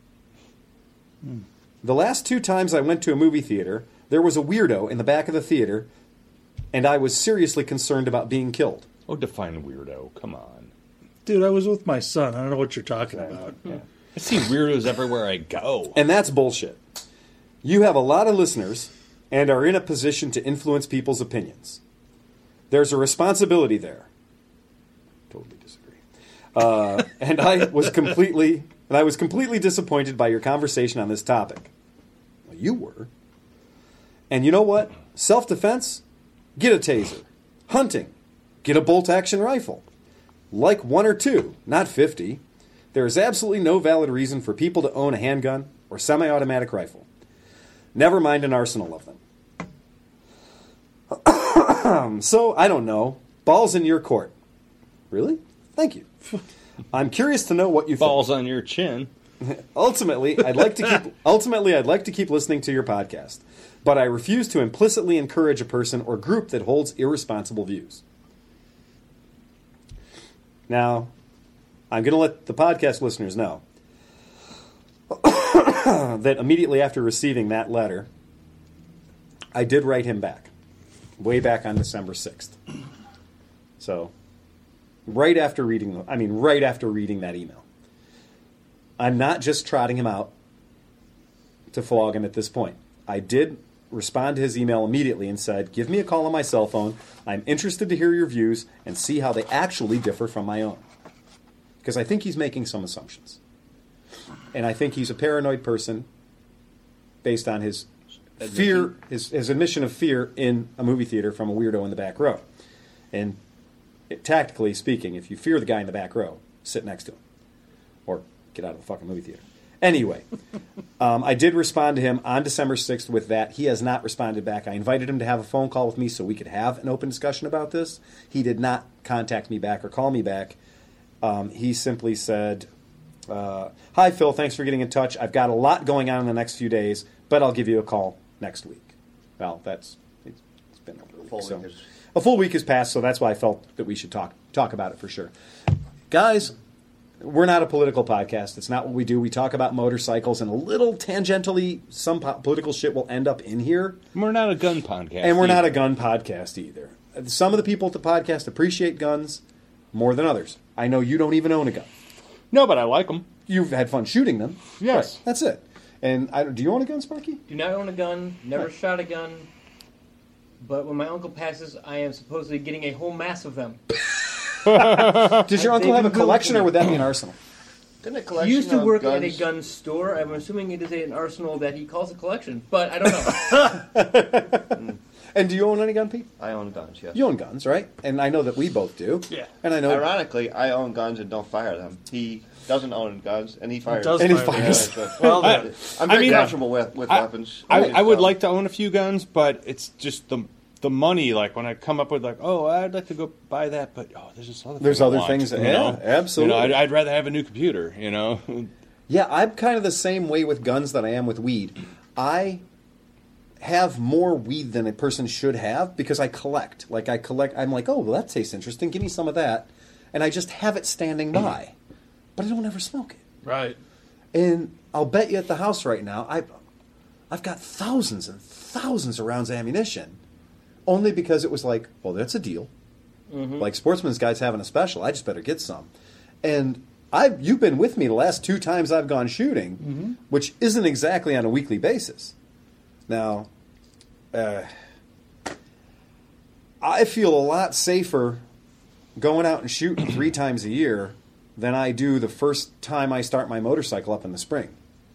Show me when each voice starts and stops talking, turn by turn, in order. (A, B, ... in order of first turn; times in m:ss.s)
0:01.8-0:05.9 A
0:06.7-0:08.9 A
0:09.1-0:10.7 B
0:11.3-0:13.6 C
0:13.2-0:13.8 A
0:14.2-0:16.0 B
0:15.9-0:16.8 A
0:17.6-0:21.8 A
0:22.7-0:24.1 A
0:25.3-0:26.0 A
0:26.5-0:31.7 A
0:32.5-0:33.1 A
0:34.3-0:36.0 A
0:36.6-0:38.1 A
0:38.6-0:39.8 A
0:40.5-0:42.4 A
0:42.9-0:47.1 A
0:47.9-0:49.2 A
0:51.1-0:54.3 A
0:55.1-0:56.1 A
0:56.9-0:58.3 A
0:58.0-0:59.1 B
0:59.4-1:08.0 A
1:10.7-1:11.1 A
1:11.9-1:13.6 A
1:15.1-1:18.1 A
1:19.5-1:20.5 A
1:21.2-1:22.6 A
1:23.8-1:24.1 A
1:25.1-1:27.6 A
1:29.0-1:30.3 A
1:31.7-1:40.8 A
1:41.8-1:43.4 A
1:44.5-1:46.1 A
1:47.2-1:47.9 A
1:48.4-1:52.4 A
1:53.1-1:53.4 A
1:54.1-1:57.2 A
1:58.1-2:00.2 A
2:01.0-2:10.6 A
2:11.2-2:12.7 A
2:13.3-2:25.3 A
2:21.3-2:21.8 D
2:26.1-2:26.6 A
2:27.2-2:34.0 A
2:34.1-2:35.8 B
2:35.2-2:39.4 A
2:39.9-2:41.9 A
2:42.5-2:43.3 B
2:43.5-2:47.4 A
2:44.8-2:45.2 B
2:47.5-2:49.5 E
2:50.6-2:53.8 E
2:54.7-2:55.4 B
2:55.4-2:57.4 A
2:55.5-2:56.9 E
2:58.0-2:59.5 D
2:58.4-3:03.8 E
3:03.5-3:04.8 A
3:05.3-3:06.3 A
3:06.4-3:07.2 D
3:07.1-3:10.1 A
3:09.8-3:18.4 D
3:13.9-3:15.7 C
3:14.2-3:15.4 A
3:15.2-3:28.7 B
3:24.8-3:26.8 A
3:29.1-3:32.6 A
3:33.6-3:41.7 A
3:42.4-3:43.2 A
3:44.3-3:46.5 A
3:47.3-3:50.2 A
3:50.9-3:52.7 A
3:53.3-3:53.7 E
3:53.6-3:55.9 A
3:56.4-4:02.3 A
4:03.1-4:03.5 A
4:04.3-4:04.7 A
4:06.8-4:08.4 A
4:09.2-4:14.8 A